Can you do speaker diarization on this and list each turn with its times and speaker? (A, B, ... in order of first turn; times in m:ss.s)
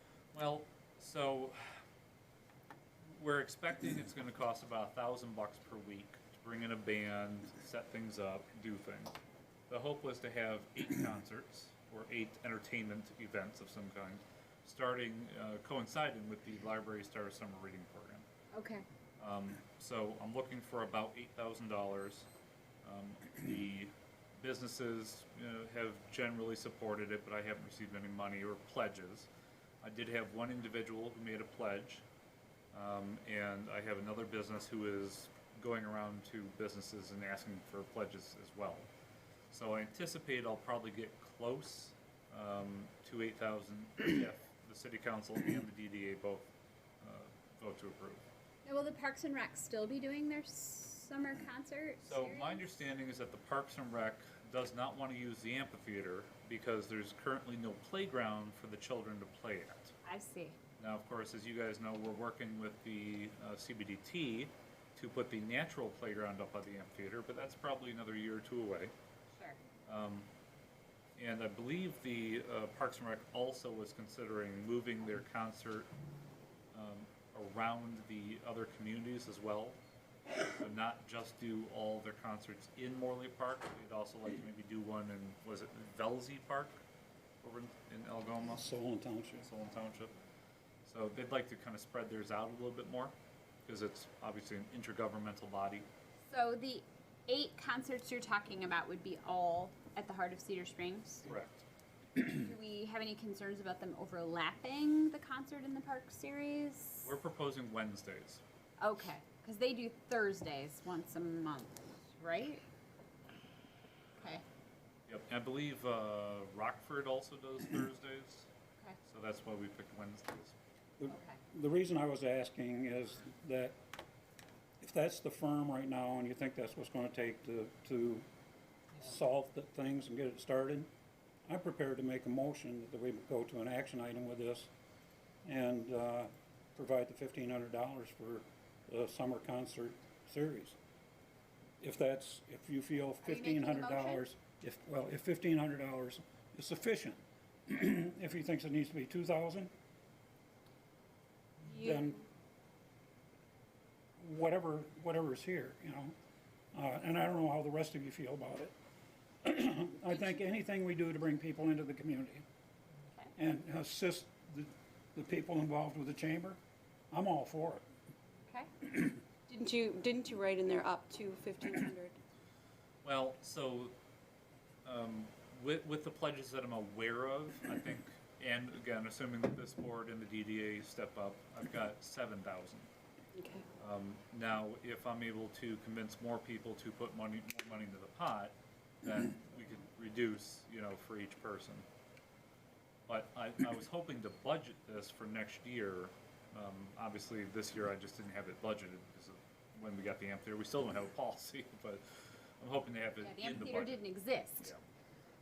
0:00.3-0:01.7 A
0:03.1-0:09.1 A
0:09.7-0:18.2 A
0:18.5-0:18.8 B
0:19.2-0:22.3 A
0:22.8-0:29.3 A
0:29.8-0:32.0 A
0:32.7-0:38.9 A
0:39.5-0:46.5 A
0:47.0-0:48.2 A
0:48.6-0:52.7 B
0:52.0-0:59.9 A
1:00.0-1:00.6 B
1:00.8-1:08.9 A
1:09.8-1:10.3 A
1:11.2-1:15.9 A
1:16.7-1:19.8 A
1:20.5-1:26.8 A
1:27.4-1:28.6 A
1:28.4-1:29.5 C
1:29.4-1:30.1 A
1:30.8-1:33.1 A
1:33.6-1:35.9 A
1:36.3-1:41.3 B
1:41.2-1:41.6 A
1:42.2-1:47.1 B
1:47.0-1:48.4 A
1:48.8-1:52.6 B
1:54.2-1:54.4 B
1:55.1-1:58.5 A
1:59.0-2:00.6 A
2:01.0-2:03.8 C
2:01.1-2:01.4 B
2:04.8-2:08.2 C
2:09.0-2:10.9 C
2:11.5-2:14.7 C
2:15.4-2:20.8 C
2:21.8-2:29.7 C
2:23.2-2:24.2 B
2:31.6-2:32.0 D
2:31.7-2:32.2 C
2:34.2-2:36.1 C
2:36.7-2:38.7 C
2:39.4-2:42.4 C
2:43.4-2:46.6 C
2:47.1-2:47.8 C
2:49.5-2:52.1 D
2:53.0-2:53.9 A
2:54.8-3:02.9 A
3:03.4-3:03.6 D
3:03.8-3:11.8 A
3:13.1-3:24.0 A
3:23.2-3:24.8 B